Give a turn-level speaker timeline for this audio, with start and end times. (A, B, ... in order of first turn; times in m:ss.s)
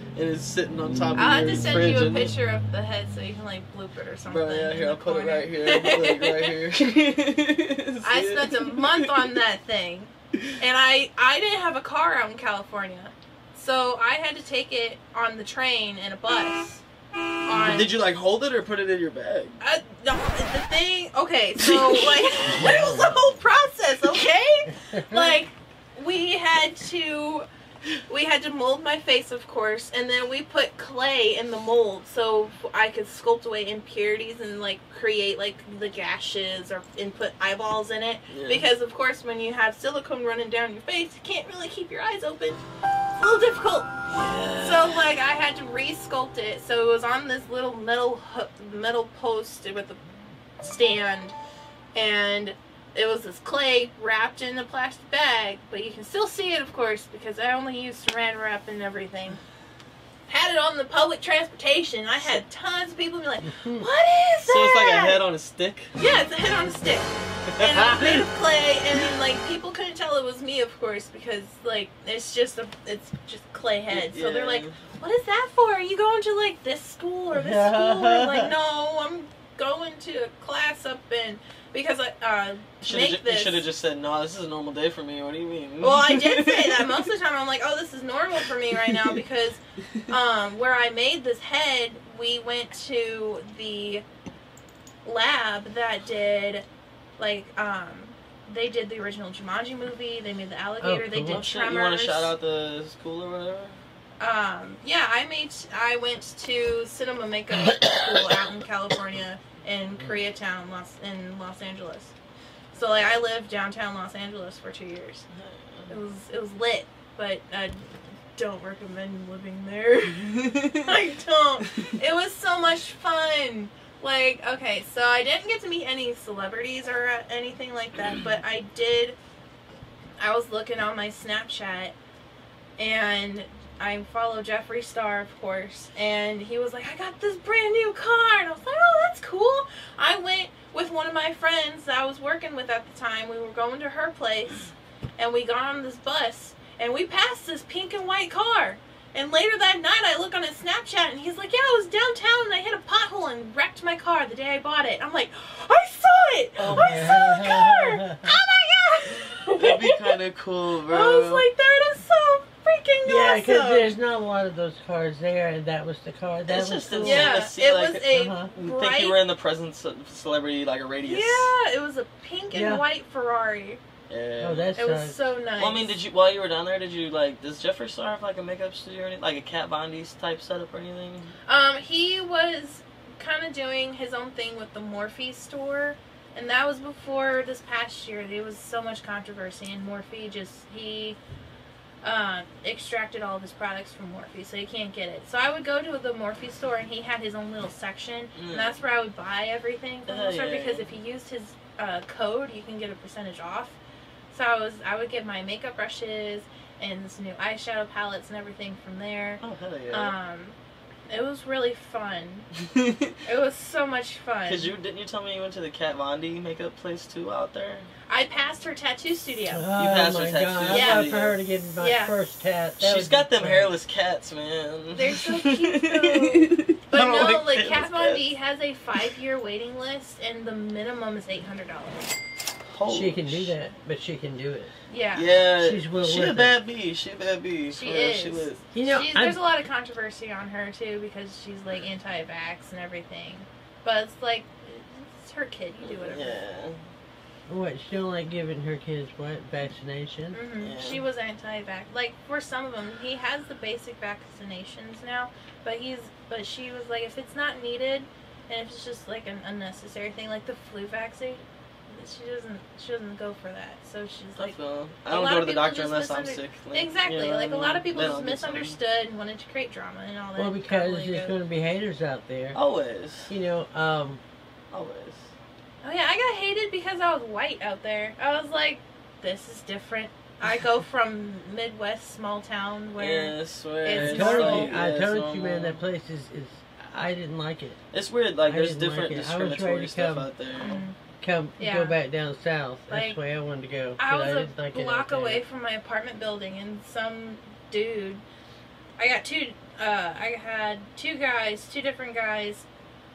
0:00.1-0:02.3 A
0:01.1-0:06.6 B
0:04.3-0:09.2 A
0:08.0-0:16.8 B
0:17.4-0:17.9 B
0:17.5-0:19.6 A
0:19.6-0:27.5 B
0:21.6-0:22.8 A
0:22.7-0:23.1 C
0:24.9-0:25.4 C
0:28.1-0:42.6 B
0:38.3-0:38.7 A
0:43.2-0:43.9 B
0:44.1-0:45.0 A
0:44.6-0:50.0 B
0:50.6-0:51.3 B
0:51.9-0:59.4 B
1:00.3-1:05.2 B
1:03.5-1:03.9 C
1:04.4-1:06.0 A
1:06.0-1:23.6 B
1:07.5-1:08.2 A
1:13.9-1:14.7 A
1:17.3-1:18.5 C
1:22.8-1:27.1 A
1:25.8-1:34.0 B
1:28.8-1:29.2 A
1:35.0-1:36.6 B
1:37.2-1:42.3 B
1:40.8-1:41.4 C
1:41.3-1:43.8 A
1:44.2-1:52.1 B
1:52.7-1:55.2 B
1:52.8-1:53.0 A
1:55.3-1:55.9 A
1:55.9-2:09.2 B
2:00.4-2:00.8 A
2:10.2-2:12.0 B
2:12.8-2:40.1 B
2:36.6-2:37.4 A
2:36.7-2:38.3 C
2:39.4-2:41.4 A
2:40.9-2:43.9 B
2:43.0-2:47.4 C
2:46.5-2:51.5 A
2:47.0-2:49.2 B
2:48.1-2:48.5 C
2:51.0-2:53.8 B
2:52.5-2:52.8 C
2:54.1-2:54.7 A
2:54.4-2:55.2 C
2:54.8-2:56.0 B
2:55.6-3:01.3 A
3:01.5-3:11.2 B
3:12.0-3:23.8 B
3:18.3-3:18.8 A
3:20.1-3:20.8 A
3:24.3-3:30.6 B
3:29.4-3:30.1 A
3:31.1-3:32.4 B
3:32.7-3:33.1 A
3:33.2-3:34.7 B
3:34.5-3:37.9 A
3:38.1-3:39.7 B
3:39.5-3:43.7 C
3:39.8-3:41.4 A
3:40.7-3:41.1 B
3:41.8-3:42.1 B
3:42.8-3:48.2 A
3:44.9-3:52.2 B
3:52.7-3:53.6 A
3:52.9-3:54.7 C
3:54.9-3:55.3 B
3:55.1-3:58.7 A
3:55.6-3:56.5 C
3:57.7-4:06.4 B
3:58.7-3:59.4 C
4:05.8-4:06.8 A
4:07.5-4:10.4 C
4:10.3-4:24.6 B
4:10.6-4:11.0 A
4:24.4-4:28.8 A
4:25.1-4:31.3 B
4:30.4-4:32.6 C
4:32.5-4:33.3 A
4:33.3-4:34.2 C
4:34.7-4:35.3 A
4:35.8-4:44.7 B
4:43.0-4:45.8 A
4:44.0-4:47.8 C
4:47.9-4:50.8 A
4:48.5-4:50.3 C
4:50.6-4:50.9 B
4:51.2-4:55.4 C
4:51.6-4:51.9 B
4:52.9-4:53.2 B
4:54.0-4:58.2 B
4:59.0-5:02.6 B